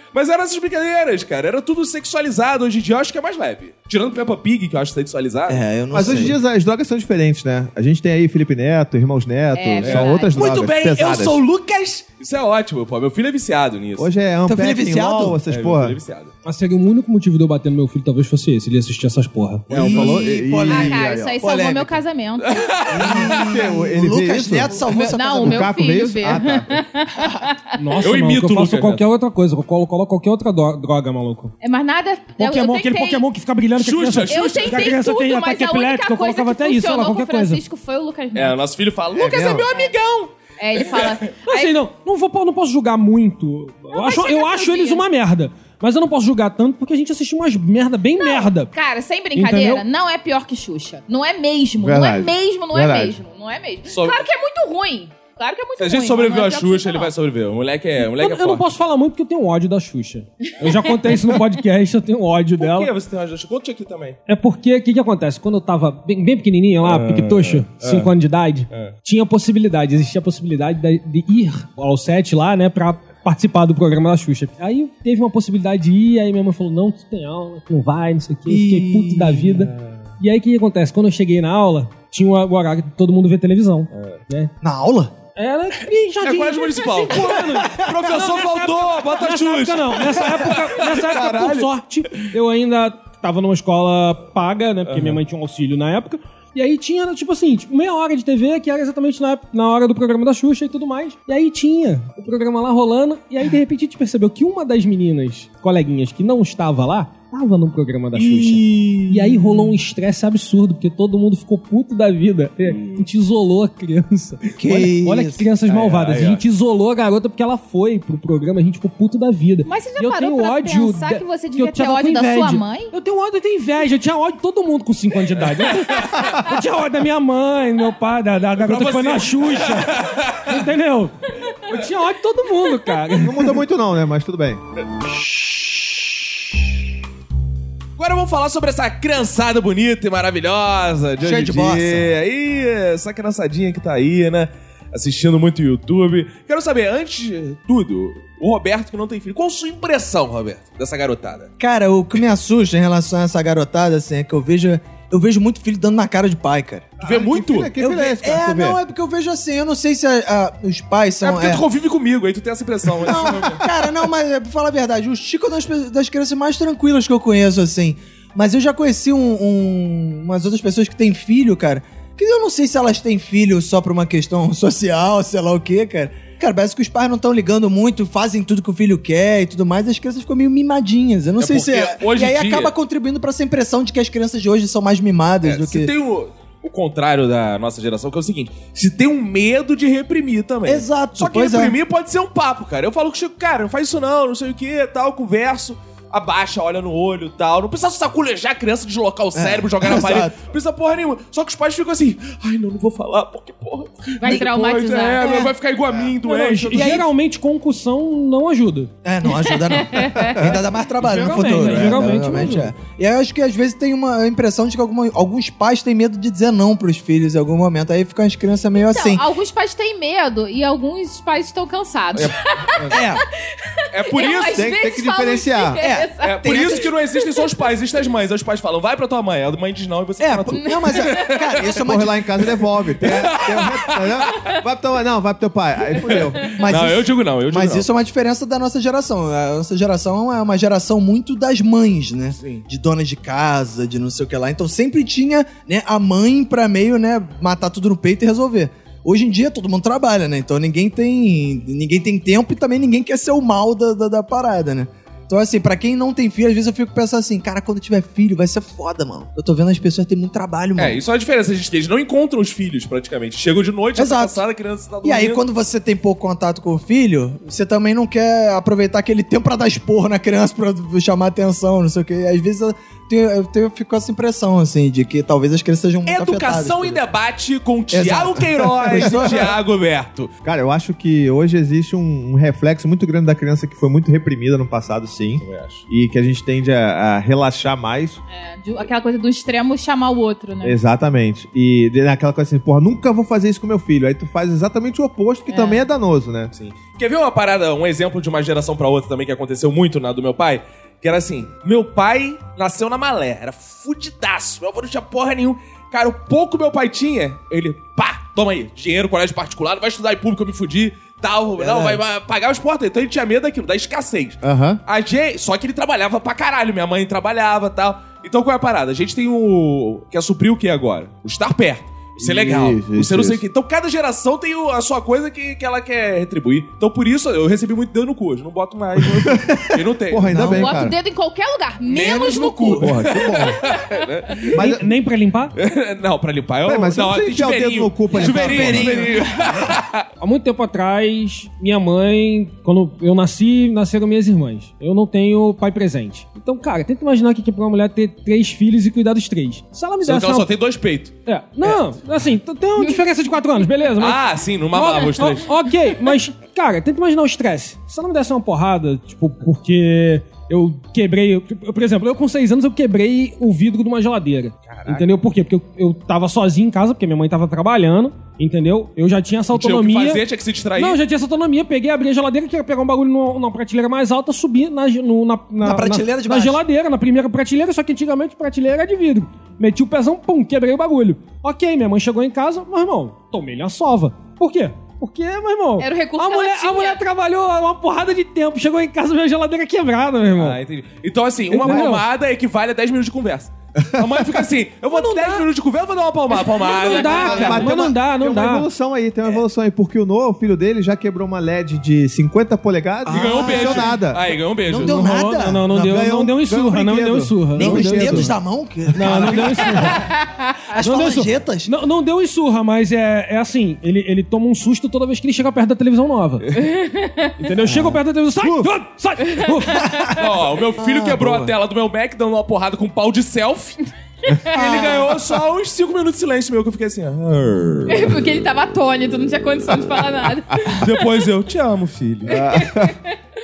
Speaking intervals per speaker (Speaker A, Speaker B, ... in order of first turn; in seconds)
Speaker A: 0.1-5.6, 9.8-14.1, 15.5-16.3, 22.4-23.4, 28.0-29.0, 33.8-34.9, 38.3-41.3, 53.9-54.2, 55.8-58.6, 62.6-64.2, 66.8-68.1, 86.2-91.7, 94.9-95.2, 108.1-109.4, 115.7-116.4, 125.6-126.1, 128.6-130.6, 138.0-151.5, 157.0-157.7, 161.2-163.6, 181.4-182.7, 185.4-207.1, 222.1-223.0, 223.9-224.7, 226.2-231.7, 233.0-234.6, 236.1-237.9, 242.4-242.6, 260.8-265.4, 276.0-280.3, 285.4-285.8, 296.5-330.3, 331.9-334.6, 335.6-340.1, 350.0-351.8, 354.0-355.5, 364.7-365.1, 369.5-371.0, 390.4-397.6, 403.1-405.0, 420.2-423.8, 424.4-428.2, 430.7-432.4
Speaker B: 5.5-6.3, 14.4-15.4, 19.7-22.0, 22.9-25.7, 78.5-79.7, 84.6-85.1, 87.5-87.8, 108.7-109.0, 114.5-115.5, 141.2-142.1, 151.6-156.9, 157.8-161.6, 163.0-185.9, 190.7-191.7, 199.3-200.3, 205.2-205.5, 206.7-207.1, 209.0-219.2, 222.9-223.2, 225.8-226.9, 230.2-232.2, 236.6-261.0, 263.9-264.4, 265.0-277.0, 277.9-279.6, 311.6-312.0, 330.3-330.8, 332.0-332.4, 338.1-339.7, 375.6-376.6, 403.0-404.0, 404.7-405.7, 407.5-410.1, 410.7-411.7, 420.8-421.5, 424.5-425.2
Speaker C: 5.9-11.4, 14.0-16.0, 19.7-21.4, 23.0-26.8, 39.1-39.7, 51.8-53.2, 133.2-134.6, 157.0-158.8, 224.5-225.8, 231.6-236.5, 280.4-288.2, 290.6-296.5, 314.4-314.8, 322.2-323.4, 329.1-330.9, 332.8-333.6, 334.5-334.9, 336.6-339.1, 397.1-404.2, 405.7-408.4, 418.4-418.7, 432.3-432.9
Speaker D: 9.5-10.4, 19.8-22.8, 24.9-27.6, 31.6-33.2, 34.3-38.6, 39.6-39.9, 40.6-41.8, 43.9-45.0, 48.2-57.1, 119.6-122.9, 204.2-205.4, 209.2-210.4, 218.8-223.0, 223.9-227.4, 230.6-231.2, 288.3-290.8, 295.5-295.8, 330.4-333.0, 385.8-387.0, 396.6-397.1, 410.0-410.5, 416.6-417.3, 427.9-430.8
Speaker E: 16.4-19.7, 27.8-31.5, 32.4-37.6, 41.5-48.7, 49.3-49.8, 58.0-62.9, 64.3-84.5, 85.3-133.5, 206.2-208.9, 211.0-212.7, 334.6-335.5, 340.2-350.5, 351.2-370.2, 370.8-390.6, 391.5-392.0, 394.9-395.4, 396.7-398.7, 404.8-408.3, 408.9-410.0, 410.8-416.5, 417.4-420.1